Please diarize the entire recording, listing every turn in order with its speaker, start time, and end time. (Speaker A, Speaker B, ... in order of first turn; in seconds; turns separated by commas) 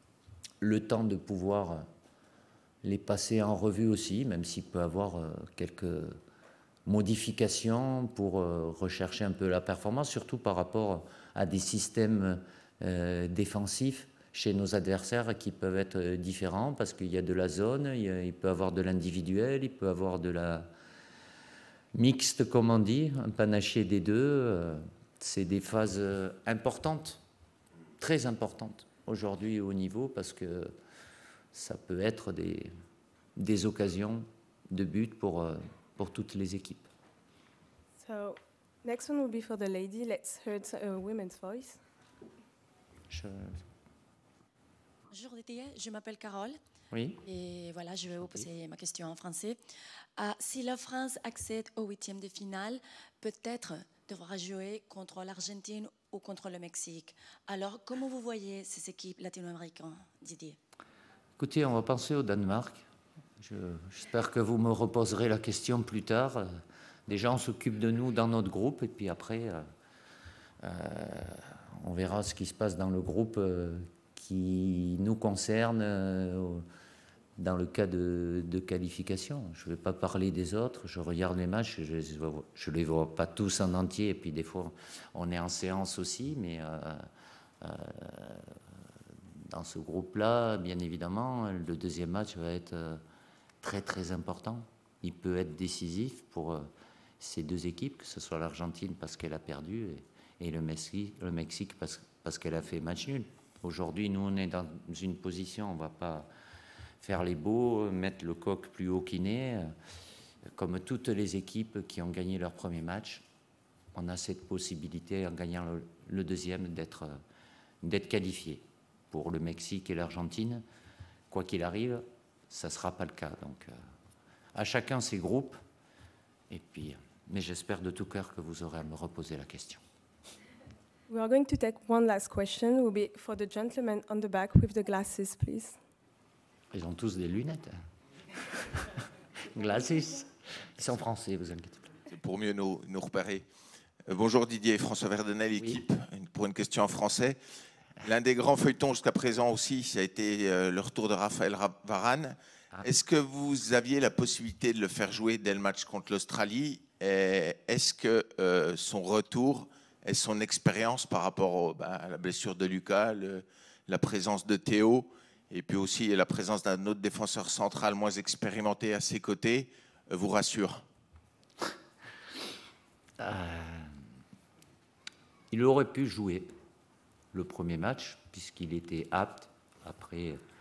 Speaker A: 0.6-1.8, Speaker A: 2.8-6.2, Speaker A: 6.8-20.7, Speaker A: 21.9-27.2, Speaker A: 28.0-30.7, Speaker A: 31.5-32.7, Speaker A: 33.4-36.9, Speaker B: 38.0-41.8, Speaker A: 43.1-43.6, Speaker C: 45.1-46.6, Speaker A: 46.9-47.2, Speaker C: 47.2-49.6, Speaker C: 50.2-60.6, Speaker A: 61.4-62.8, Speaker A: 63.4-66.5, Speaker A: 67.1-69.6, Speaker A: 70.6-76.6, Speaker A: 77.4-87.0, Speaker A: 87.6-88.5, Speaker A: 89.5-93.0, Speaker A: 93.6-96.7, Speaker A: 97.2-106.3, Speaker A: 107.0-109.7, Speaker A: 110.5-113.2, Speaker A: 113.9-117.1, Speaker A: 117.8-120.6, Speaker A: 121.3-123.7, Speaker A: 124.5-125.6, Speaker A: 126.5-129.8, Speaker B: 131.1-135.8, Speaker A: 136.7-137.7, Speaker A: 139.5-141.9, Speaker D: 142.1-143.4, Speaker D: 144.1-147.4, Speaker D: 148.0-170.8, Speaker A: 173.2-173.9, Speaker A: 175.5-176.5, Speaker A: 177.3-180.4